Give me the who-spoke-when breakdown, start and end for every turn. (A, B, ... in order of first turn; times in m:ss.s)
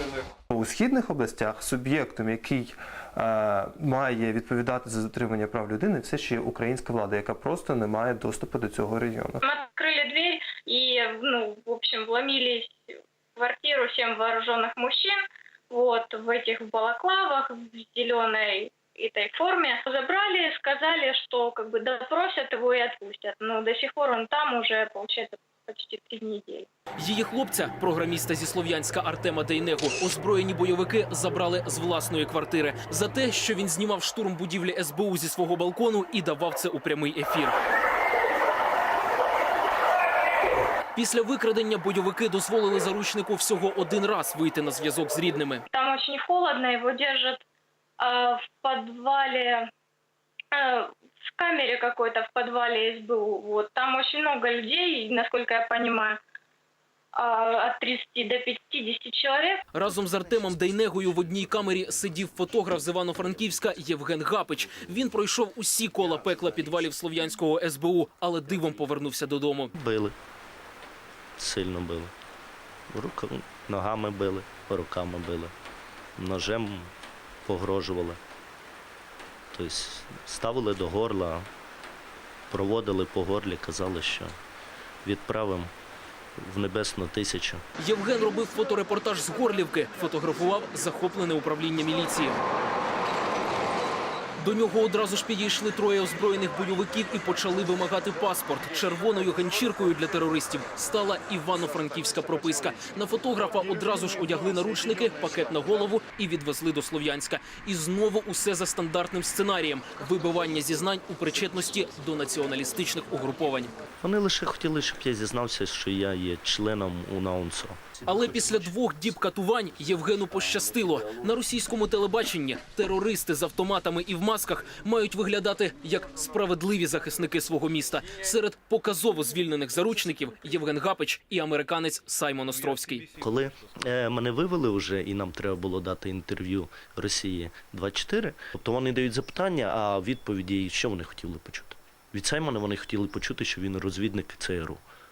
0:00.5-0:09.4 A
0:09.4-0:26.7 B
0:27.0-0:37.6 C
0:41.0-0:45.6 C
0:45.7-0:47.4 B
0:48.0-0:49.6 B
0:50.5-0:56.2 B
0:57.2-0:59.6 B
0:59.7-1:09.7 C
1:09.8-1:10.2 D
1:11.4-1:12.1 D
1:12.9-1:15.5 D
1:16.2-1:16.9 D
1:17.5-1:18.2 D
1:19.5-1:21.5 D
1:22.5-1:24.4 D
1:25.0-1:25.7 D
1:26.4-1:27.6 D
1:27.8-1:32.4 C
1:34.4-1:53.7 C
1:54.0-1:58.0 D
1:58.0-2:13.1 C
2:13.2-2:24.8 D